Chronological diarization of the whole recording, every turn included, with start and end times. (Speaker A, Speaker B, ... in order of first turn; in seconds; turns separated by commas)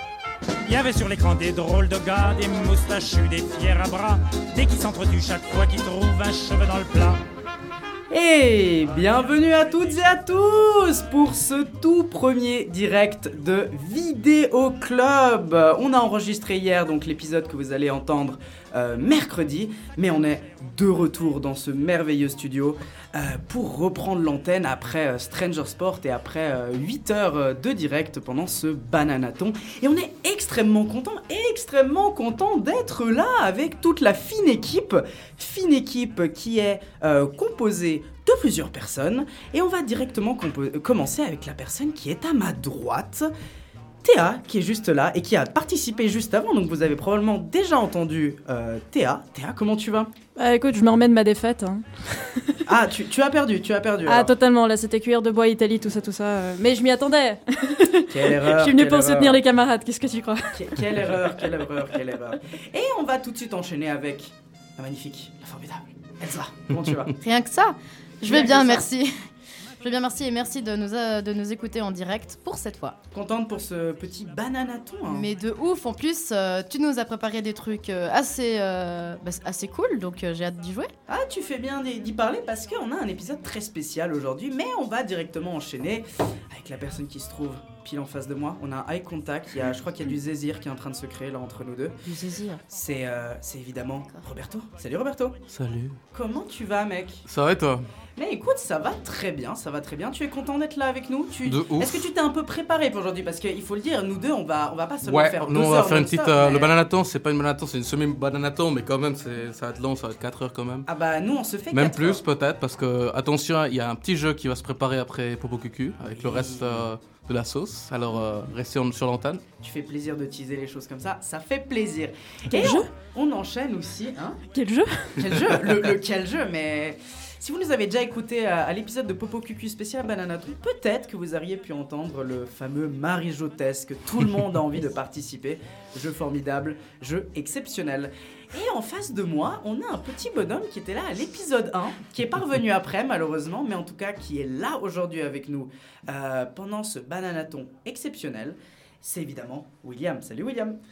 Speaker A: 0.7-7.2, Speaker B: 8.1-43.3, Speaker A: 9.1-9.7, Speaker B: 44.0-50.1, Speaker C: 50.4-52.6, Speaker B: 52.7-54.3, Speaker C: 54.0-61.3, Speaker B: 58.1-59.4, Speaker B: 60.5-67.1, Speaker D: 67.2-69.1, Speaker B: 68.2-68.8, Speaker D: 69.8-73.0, Speaker B: 73.1-75.3, Speaker D: 75.1-80.9, Speaker B: 81.1-92.0, Speaker D: 92.0-92.6, Speaker B: 92.7-95.4, Speaker E: 95.5-96.0, Speaker B: 96.1-97.2, Speaker E: 97.3-97.9, Speaker B: 98.2-106.7, Speaker E: 101.5-102.1, Speaker E: 105.0-110.9, Speaker B: 110.9-112.2, Speaker E: 111.7-119.4, Speaker B: 116.2-116.9, Speaker B: 119.6-124.4, Speaker C: 122.5-122.9, Speaker C: 124.5-125.2, Speaker B: 125.2-150.8